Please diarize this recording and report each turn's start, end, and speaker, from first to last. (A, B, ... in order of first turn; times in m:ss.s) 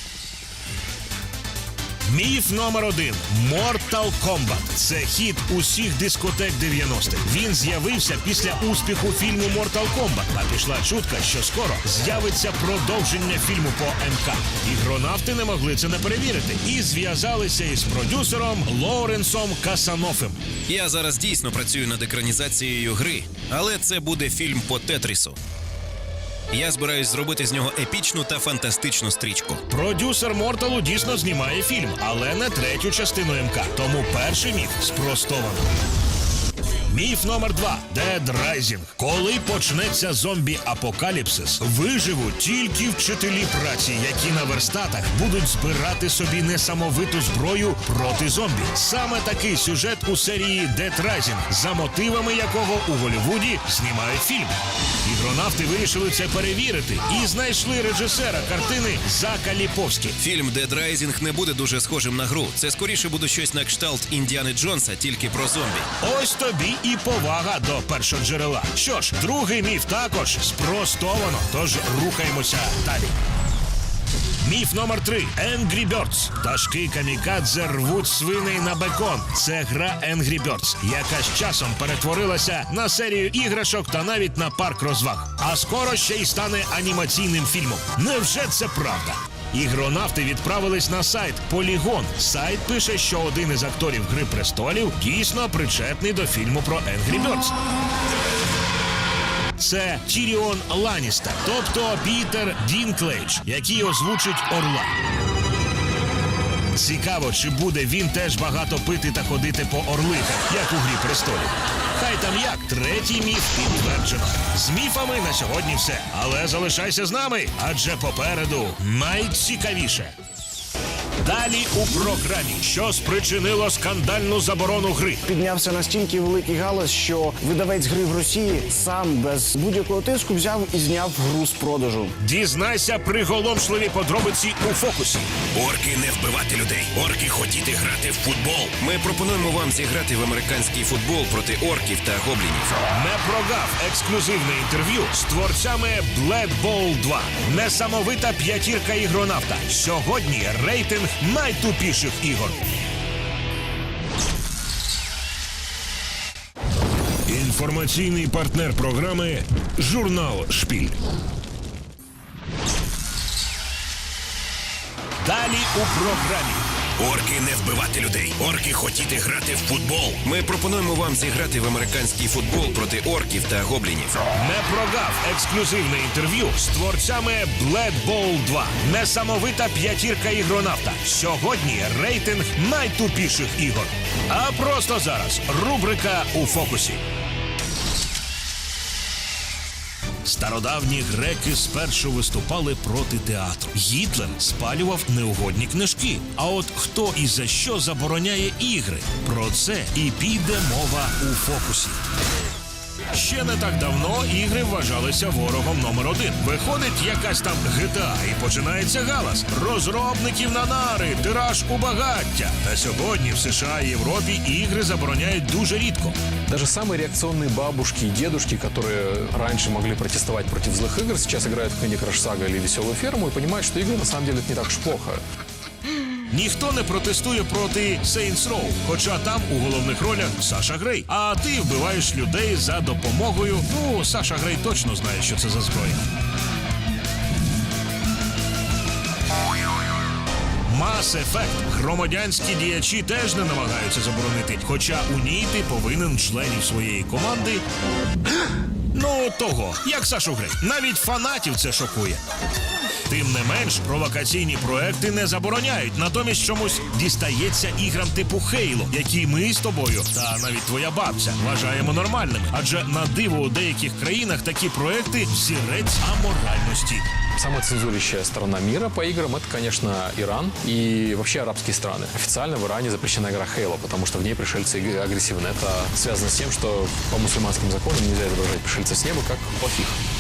0:02.1-0:20.4 A
0:20.7-0:25.4 B
0:26.5-0:29.6 B
0:29.7-0:35.7 A
0:36.9-0:54.5 A
0:55.0-1:00.2 A
1:00.2-1:05.9 B
1:06.0-1:13.2 A
1:14.4-1:37.6 A
1:39.6-1:44.9 A
1:46.8-2:00.1 A
2:01.2-2:05.2 A
2:05.3-2:12.2 C
2:12.2-2:15.3 A
2:15.5-2:22.8 B
2:22.9-2:32.6 A
2:37.3-2:41.0 A
2:45.2-2:46.6 A
2:47.0-2:54.2 B
2:54.4-3:07.0 A
3:10.2-3:22.0 A
3:23.1-3:36.2 A
3:36.5-3:45.2 D
3:46.3-3:56.1 A
4:00.7-4:07.6 A
4:08.9-4:12.2 A
4:13.1-4:27.1 A
4:27.4-4:40.0 D